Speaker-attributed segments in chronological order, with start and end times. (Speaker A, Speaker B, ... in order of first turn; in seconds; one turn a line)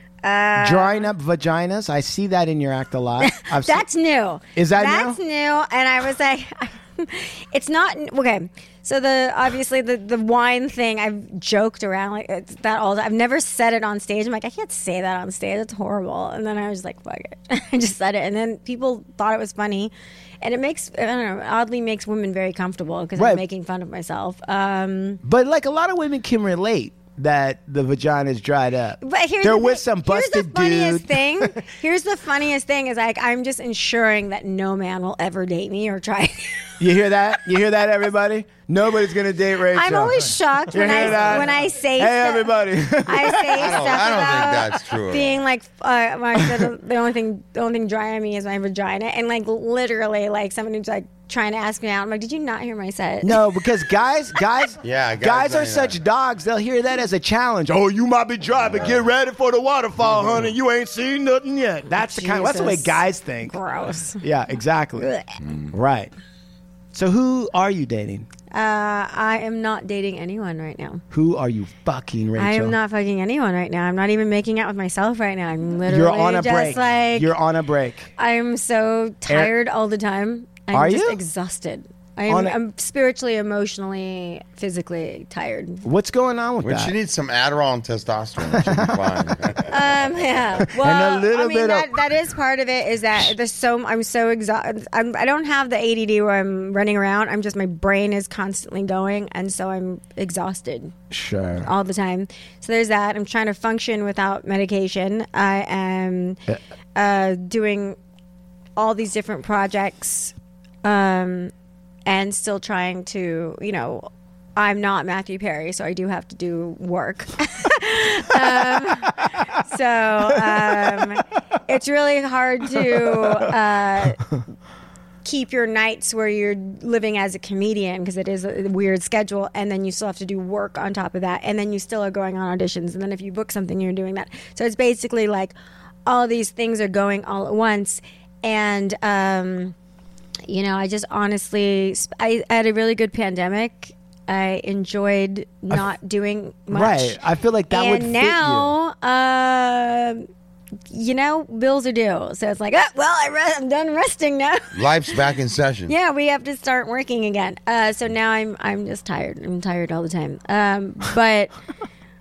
Speaker A: 0.2-1.1
Speaker B: 0.6-3.8
Speaker A: 3.2-25.2
Speaker B: 4.5-5.2
Speaker B: 23.1-23.4
Speaker B: 25.2-31.6
Speaker A: 29.0-36.7
Speaker B: 36.8-44.2
Speaker A: 39.7-53.6
Speaker C: 43.5-45.4
Speaker B: 46.4-46.7
Speaker B: 53.2-63.5
Speaker C: 54.8-56.0
Speaker C: 58.7-59.0
Speaker C: 60.0-60.5
Speaker A: 62.0-64.2
Speaker B: 64.2-65.1
Speaker A: 65.0-65.4
Speaker C: 65.4-65.7
Speaker B: 65.7-66.1
Speaker B: 66.9-68.3
Speaker A: 68.5-71.0
Speaker B: 71.1-72.8
Speaker A: 72.4-77.3
Speaker B: 75.8-78.1
Speaker A: 78.2-85.8
Speaker B: 79.3-79.5
Speaker B: 80.7-81.2
Speaker B: 82.3-82.6
Speaker B: 85.8-86.9
Speaker C: 86.6-90.1
Speaker B: 88.5-89.3
Speaker A: 89.7-100.9
Speaker B: 90.6-92.0
Speaker B: 101.1-101.7
Speaker A: 101.6-106.4
Speaker A: 107.0-108.0
Speaker A: 108.8-111.5
Speaker A: 112.0-124.2
Speaker B: 120.3-121.2
Speaker B: 122.8-123.5
Speaker A: 125.2-135.5
Speaker A: 136.1-139.8
Speaker A: 140.5-147.2
Speaker B: 146.7-148.8
Speaker A: 147.7-150.3
Speaker A: 150.9-154.9
Speaker C: 154.7-155.9
Speaker A: 155.9-161.5